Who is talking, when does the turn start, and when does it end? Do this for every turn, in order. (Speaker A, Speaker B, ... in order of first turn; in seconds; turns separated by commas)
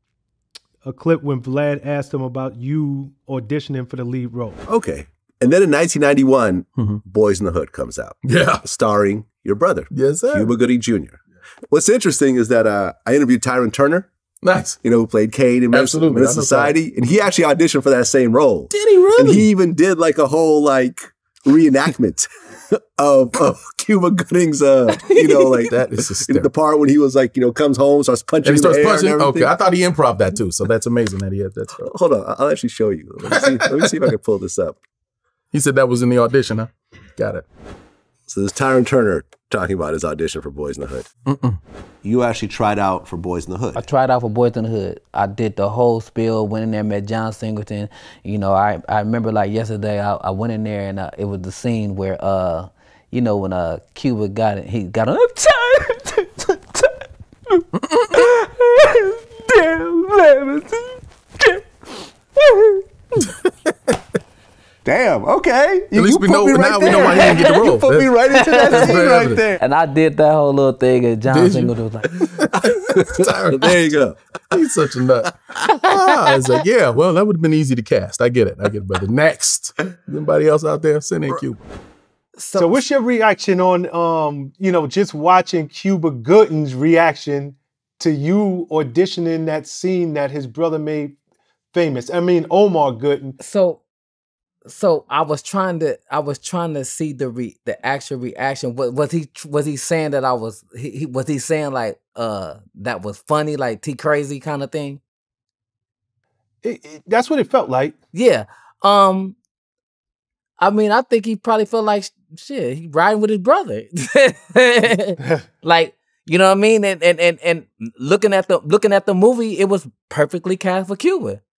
Speaker A: 0.8-4.6, Speaker B: 4.7-11.2, Speaker C: 8.2-8.6, Speaker C: 9.9-10.5, Speaker B: 11.7-14.1, Speaker C: 14.4-14.8, Speaker B: 14.8-29.5, Speaker C: 15.7-16.7, Speaker C: 18.7-19.5, Speaker D: 25.1-25.4, Speaker C: 25.7-26.5, Speaker C: 28.4-31.9, Speaker B: 31.8-34.8, Speaker C: 35.5-37.4, Speaker B: 38.3-41.1, Speaker C: 41.3-41.6, Speaker B: 42.0-43.8, Speaker D: 43.8-56.8, Speaker D: 58.1-61.6, Speaker D: 62.4-62.8, Speaker B: 64.8-69.6, Speaker C: 65.9-69.4, Speaker D: 67.1-67.6, Speaker D: 68.3-69.0, Speaker D: 69.6-72.9, Speaker C: 71.3-71.7, Speaker C: 72.8-73.8, Speaker B: 73.2-74.7, Speaker C: 74.5-81.6, Speaker D: 82.4-82.8, Speaker A: 82.5-91.2, Speaker A: 91.7-93.3, Speaker D: 93.4-93.8, Speaker D: 94.7-105.0, Speaker A: 106.6-107.9, Speaker D: 108.1-109.4, Speaker D: 110.6-121.4